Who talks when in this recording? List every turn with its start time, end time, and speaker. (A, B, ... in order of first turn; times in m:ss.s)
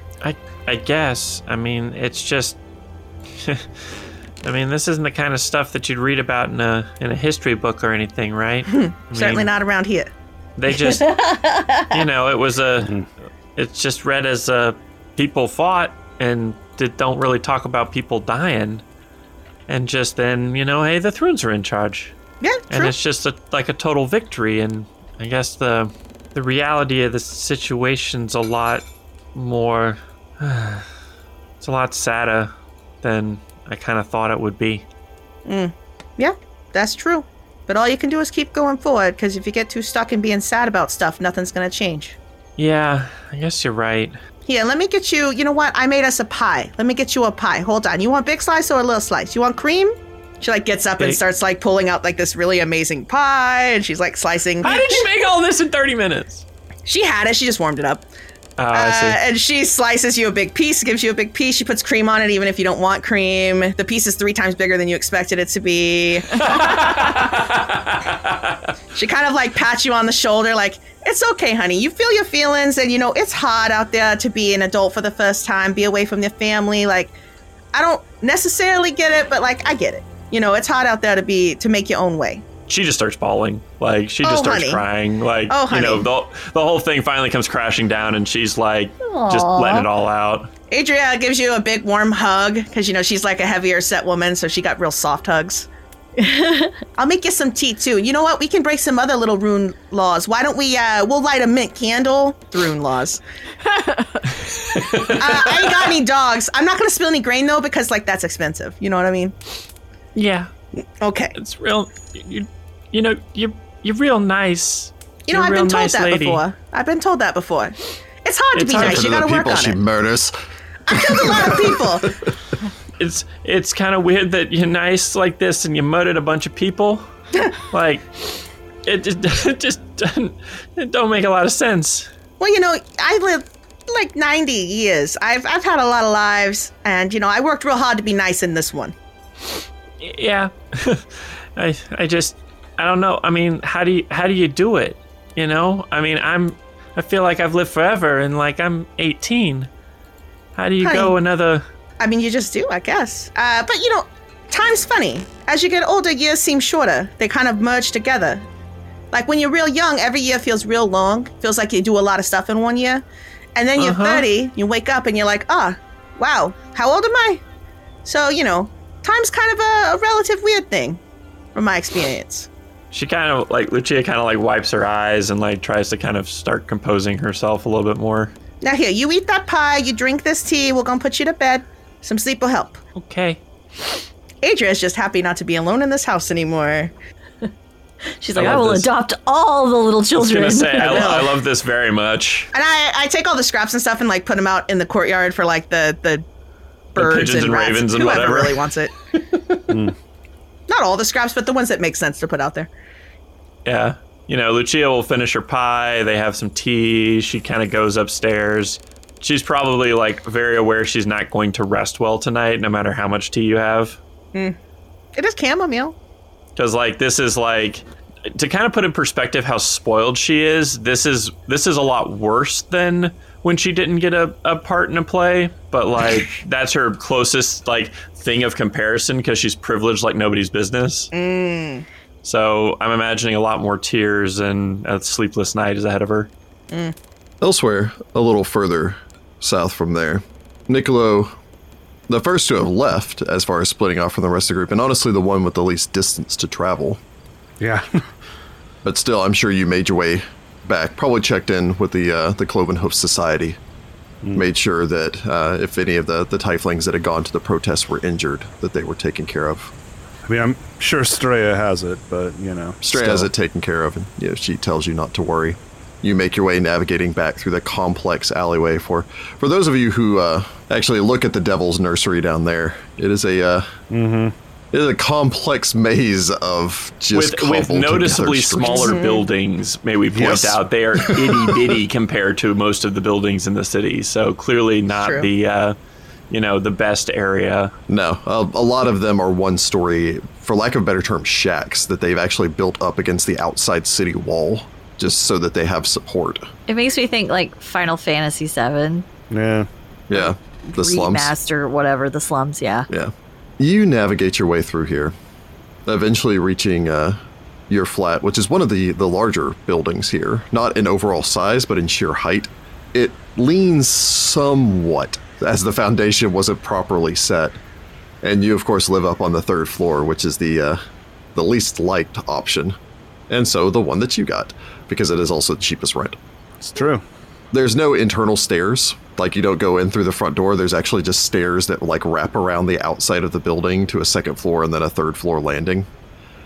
0:00.2-0:02.6 A
0:04.4-0:09.5 A
0:08.7-0:10.1 B
0:10.6-0:11.2 A
0:10.9-0:11.9 C
0:11.9-0:12.9 A
0:13.6-0:18.8 A
0:19.7-0:22.1 A
0:22.4-0:22.9 B
0:22.7-0:28.8 A
0:29.3-0:30.9 A
0:31.6-0:34.8 A
0:35.4-0:42.2 B
0:42.6-0:44.2 A
0:44.4-0:55.0 B
0:54.6-0:56.4 A
0:56.9-0:58.0 B
0:58.6-0:59.2 A
0:58.7-1:07.0 B
1:06.3-1:08.6 A
1:08.9-1:17.1 B
1:17.7-1:22.4 B
1:22.7-1:30.5 A
1:24.2-1:24.8 B
1:25.5-1:26.0 B
1:29.0-1:29.9 C
1:30.7-1:35.7 B
1:36.2-1:36.7 C
1:37.0-1:43.2 B
1:44.5-1:45.9 A
1:45.1-1:49.3 B
1:50.1-1:50.5 A
1:51.0-1:51.3 B
1:51.4-1:56.4 A
1:55.3-1:59.8 B
1:58.5-1:59.0 A
1:58.7-2:00.3 D
2:00.9-2:02.1 B
2:00.9-2:02.1 D
2:03.0-2:07.0 A
2:07.6-2:12.1 A
2:12.4-2:18.9 B
2:20.0-2:29.7 A
2:30.6-2:31.6 A
2:30.8-2:31.1 B
2:32.0-2:38.4 B
2:39.1-2:43.0 B
2:43.6-2:47.4 B
2:43.8-2:44.3 A
2:48.0-2:51.0 B
2:51.6-2:52.5 B
2:52.9-2:58.3 A
2:58.6-3:02.8 B
3:02.9-3:03.4 A
3:04.4-3:06.9 B
3:08.2-3:11.2 C
3:08.4-3:08.9 A
3:10.2-3:12.5 A
3:10.8-3:11.3 B
3:12.5-3:16.2 B
3:16.9-3:18.7 A
3:17.0-3:18.9 B
3:20.7-3:22.7 B
3:23.6-3:34.0 A
3:35.2-3:35.9 B
3:36.6-3:51.1 A
3:51.1-3:51.9 B
3:52.2-3:56.3 A
3:57.4-4:01.3 D
4:02.1-4:07.0 D
4:07.6-4:08.0 E
4:08.8-4:13.6 D
4:14.3-4:19.7 D
4:20.3-4:23.3 E
4:22.8-4:33.7 D
4:33.9-4:34.3 E
4:34.7-4:38.9 D
4:37.1-4:45.8 A
4:38.6-4:39.3 B
4:40.2-4:40.6 D
4:40.2-4:40.4 E
4:44.9-4:45.3 B
4:46.3-4:47.7 A
4:47.9-4:56.4 D
4:56.7-4:59.1 C
4:59.3-4:59.7 E
5:00.1-5:01.3 D
5:00.2-5:02.9 C
5:02.9-5:05.1 D
5:05.9-5:17.6 D
5:18.2-5:20.8 D
5:21.3-5:22.8 D
5:23.3-5:26.2 D
5:26.6-5:27.0 E
5:27.5-5:35.9 D